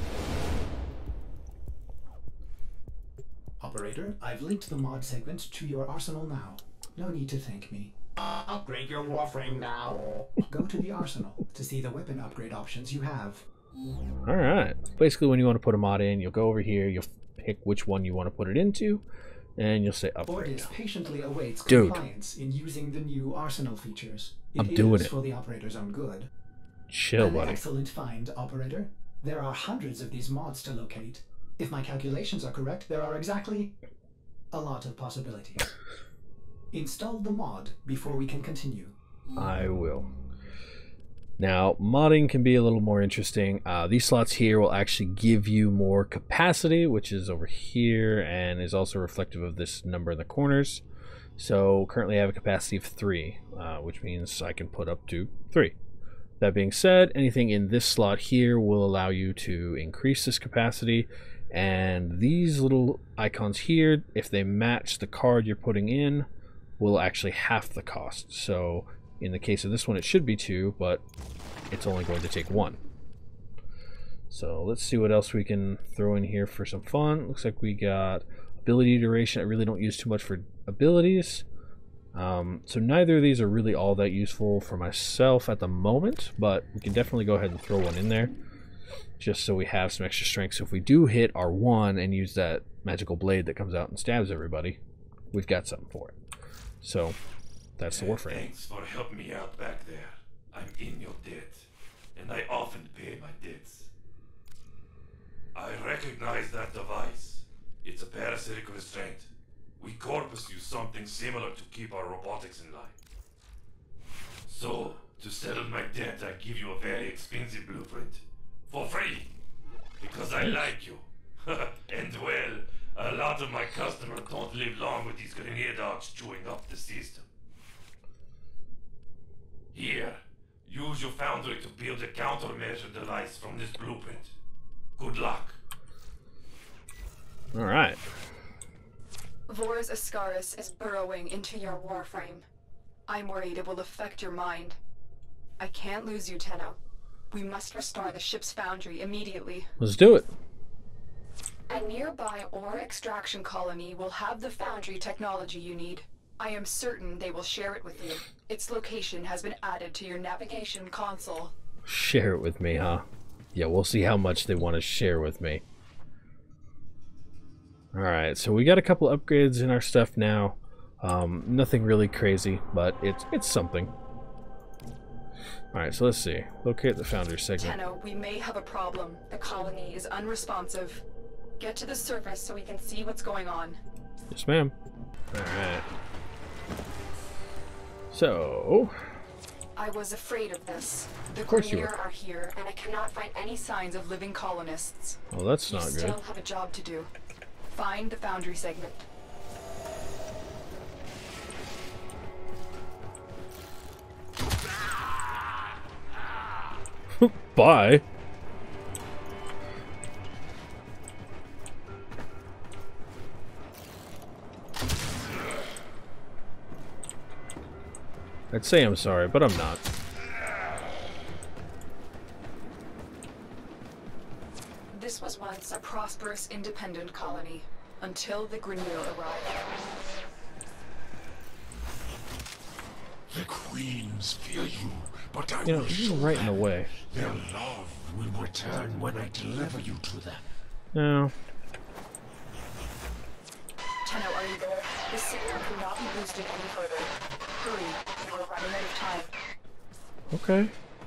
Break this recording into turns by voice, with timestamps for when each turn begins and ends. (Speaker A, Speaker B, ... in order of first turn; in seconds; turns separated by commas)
Speaker A: 3.6-13.4, Speaker B: 14.3-19.1, Speaker B: 19.6-20.7, Speaker A: 20.3-26.3, Speaker B: 21.7-22.0, Speaker B: 24.6-25.1, Speaker B: 26.9-27.6, Speaker A: 27.2-33.8, Speaker A: 34.5-35.7, Speaker A: 36.7-39.0, Speaker B: 39.4-40.1, Speaker B: 41.4-50.8, Speaker B: 51.4-55.8, Speaker B: 56.4-66.3, Speaker B: 66.8-71.0, Speaker B: 71.7-72.8, Speaker B: 74.3-81.5, Speaker B: 82.1-88.3, Speaker B: 89.2-94.8, Speaker B: 95.3-96.2, Speaker B: 96.8-97.2, Speaker B: 97.8-98.5, Speaker C: 97.9-103.9, Speaker C: 105.5-113.0, Speaker C: 114.5-119.3, Speaker C: 120.0-127.2, Speaker B: 120.4-120.7, Speaker C: 129.7-134.3, Speaker C: 135.0-135.6, Speaker B: 137.5-138.0, Speaker D: 139.5-142.5, Speaker D: 143.1-144.8, Speaker D: 145.6-146.8, Speaker D: 147.3-149.7, Speaker B: 149.8-150.3, Speaker D: 151.7-161.5, Speaker B: 161.9-165.6, Speaker B: 167.9-173.9, Speaker B: 175.7-177.8, Speaker D: 177.6-181.0, Speaker D: 181.6-183.8, Speaker B: 184.3-184.7, Speaker B: 185.3-185.8, Speaker B: 188.1-188.9, Speaker D: 189.8-197.1, Speaker B: 191.5-191.9, Speaker B: 195.3-196.2, Speaker D: 197.7-199.0, Speaker B: 207.2-208.0, Speaker B: 218.5-219.8, Speaker D: 224.9-229.7, Speaker E: 233.3-240.6, Speaker B: 235.7-236.9, Speaker B: 240.9-241.3, Speaker D: 244.0-249.3, Speaker B: 250.3-250.7